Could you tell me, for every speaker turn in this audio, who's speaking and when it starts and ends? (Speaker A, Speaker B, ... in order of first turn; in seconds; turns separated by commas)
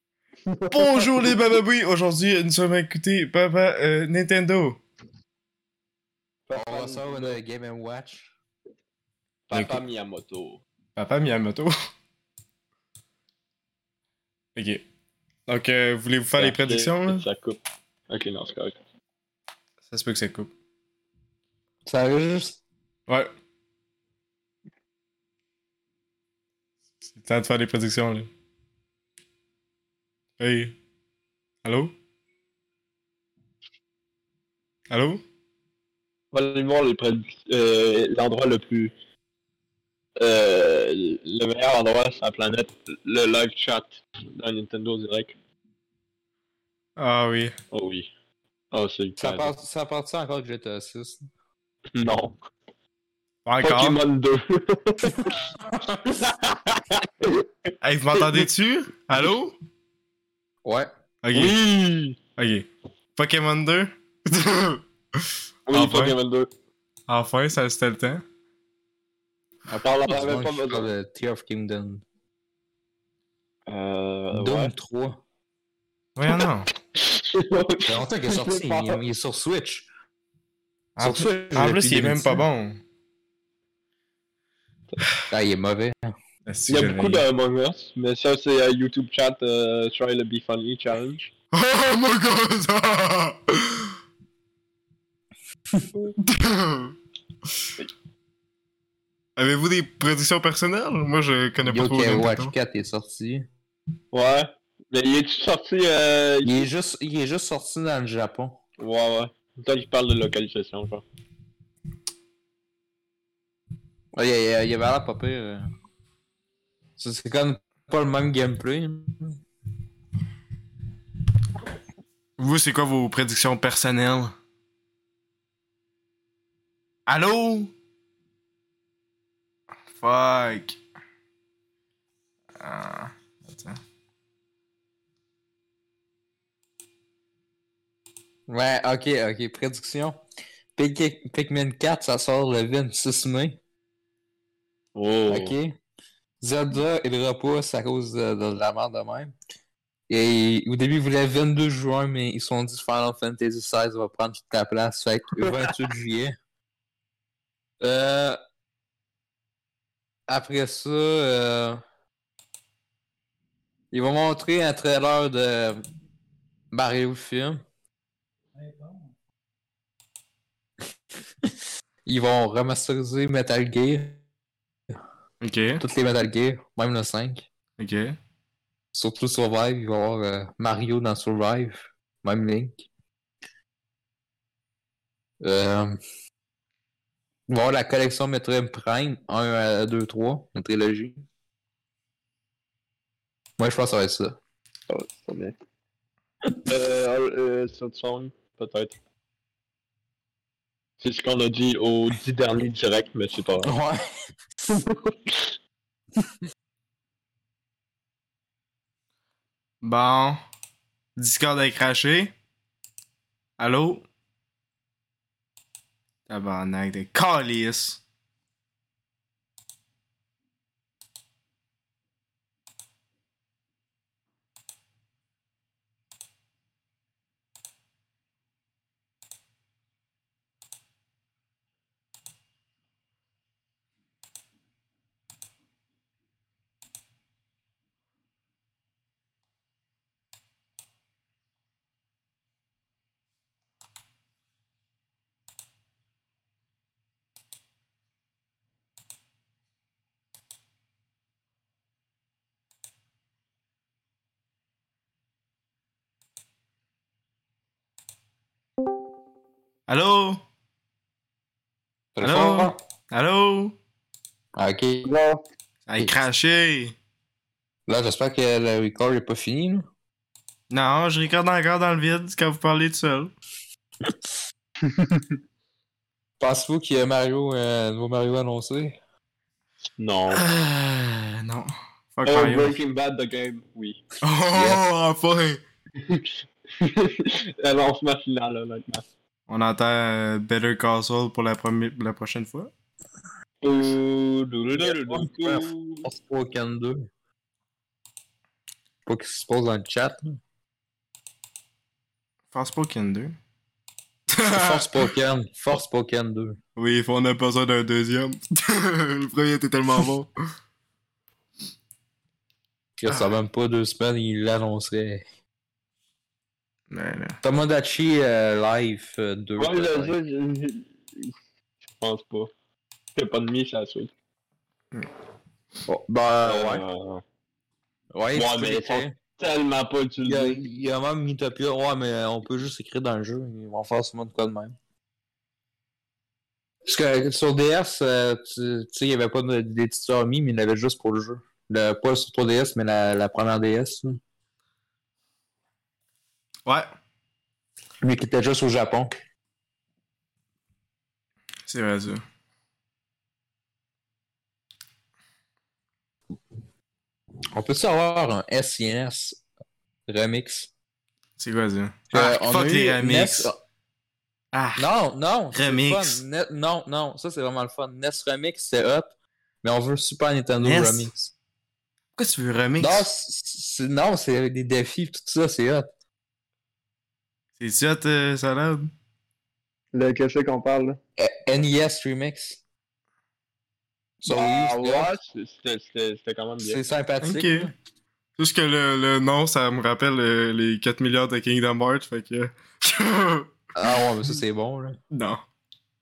Speaker A: 0.5-1.3, Speaker B: 0.7-4.8, Speaker A: 6.5-7.4, Speaker C: 6.5-8.3, Speaker A: 9.5-10.6, Speaker B: 9.5-9.8, Speaker B: 10.9-11.7, Speaker B: 14.5-14.8, Speaker B: 15.5-17.2, Speaker A: 16.3-18.8, Speaker B: 19.9-20.5, Speaker C: 21.9-22.6, Speaker B: 27.1-28.3, Speaker B: 30.4-30.8, Speaker B: 31.6-31.9, Speaker B: 34.9-35.2, Speaker A: 36.3-38.9, Speaker A: 40.2-45.3, Speaker B: 47.0-47.5, Speaker A: 47.7-48.1, Speaker A: 48.7-49.5, Speaker C: 49.2-51.2, Speaker A: 51.9-52.4, Speaker B: 53.4-54.0, Speaker A: 53.6-55.4, Speaker A: 56.2-57.5, Speaker B: 57.8-59.5, Speaker A: 58.2-58.4, Speaker C: 60.6-60.9, Speaker B: 61.2-61.6, Speaker A: 61.3-62.2, Speaker B: 62.4-66.2, Speaker A: 65.7-66.5, Speaker B: 67.1-68.2, Speaker C: 69.7-72.0, Speaker A: 69.8-70.9, Speaker A: 73.7-74.7, Speaker C: 74.3-75.2, Speaker B: 76.2-76.7, Speaker A: 76.9-79.0, Speaker C: 77.8-79.9, Speaker B: 81.0-82.8, Speaker C: 81.0-82.4, Speaker C: 85.3-86.1, Speaker B: 86.5-87.3, Speaker A: 86.7-91.3, Speaker B: 91.5-93.9, Speaker C: 95.7-96.1, Speaker B: 96.2-96.9, Speaker B: 99.4-102.5, Speaker C: 101.7-103.5, Speaker A: 104.1-106.5, Speaker C: 106.4-108.6, Speaker A: 108.8-111.0, Speaker C: 114.1-115.7, Speaker C: 117.0-119.4, Speaker B: 122.4-124.3, Speaker B: 127.0-127.7, Speaker B: 130.0-130.8, Speaker B: 132.5-133.8, Speaker C: 138.5-140.2, Speaker C: 140.7-143.6, Speaker A: 144.9-145.6, Speaker C: 145.3-145.8, Speaker C: 146.4-149.3, Speaker C: 150.1-156.3, Speaker C: 157.8-158.4, Speaker C: 160.3-161.8, Speaker C: 163.9-165.8, Speaker C: 166.7-167.6, Speaker C: 172.0-174.2, Speaker B: 175.4-175.8, Speaker C: 175.8-177.4, Speaker B: 177.8-178.2, Speaker C: 178.9-182.8, Speaker C: 185.4-186.0, Speaker C: 187.5-191.2, Speaker C: 193.6-194.4, Speaker A: 194.9-195.5, Speaker A: 196.6-199.0, Speaker A: 201.0-203.7, Speaker C: 203.6-204.0, Speaker A: 204.8-205.3, Speaker B: 209.8-210.4, Speaker B: 211.2-212.3, Speaker B: 213.6-214.0, Speaker B: 216.3-218.0, Speaker B: 259.9-260.4, Speaker C: 262.1-262.8, Speaker B: 262.2-263.8, Speaker C: 264.5-265.1, Speaker A: 265.0-265.4, Speaker B: 265.9-266.9, Speaker C: 267.9-269.9, Speaker B: 270.7-273.3, Speaker A: 275.0-275.2, Speaker C: 276.4-279.0, Speaker A: 280.0-280.5, Speaker B: 280.3-282.8, Speaker A: 282.2-284.0, Speaker B: 284.2-285.6, Speaker C: 284.5-284.8, Speaker A: 285.9-289.0, Speaker B: 289.5-292.7, Speaker A: 293.6-296.0, Speaker C: 294.7-297.1, Speaker C: 299.1-300.4, Speaker B: 302.5-303.4, Speaker B: 304.3-304.9, Speaker C: 304.5-306.6, Speaker B: 306.8-310.3, Speaker C: 313.0-315.2, Speaker B: 313.1-313.3, Speaker B: 316.9-317.4, Speaker C: 317.4-320.1, Speaker A: 319.6-321.3, Speaker A: 322.0-322.5, Speaker A: 323.1-324.1, Speaker C: 325.9-326.8, Speaker A: 326.4-327.2, Speaker C: 328.1-329.2, Speaker A: 328.3-330.6, Speaker C: 330.2-334.8, Speaker C: 336.9-344.2, Speaker C: 348.0-349.1, Speaker B: 351.7-352.2, Speaker C: 357.5-359.4, Speaker C: 360.1-360.7, Speaker B: 361.4-363.5, Speaker C: 362.1-363.6, Speaker B: 364.5-364.9, Speaker C: 364.8-371.3, Speaker B: 365.5-366.2, Speaker B: 370.6-371.1, Speaker B: 372.1-373.1, Speaker C: 372.8-375.9, Speaker B: 377.6-378.9, Speaker A: 379.9-381.0, Speaker C: 381.2-382.6, Speaker C: 384.2-385.1, Speaker A: 384.3-386.8, Speaker C: 386.6-387.7, Speaker B: 387.2-387.7, Speaker B: 388.4-393.9, Speaker C: 393.8-395.0, Speaker B: 395.1-395.4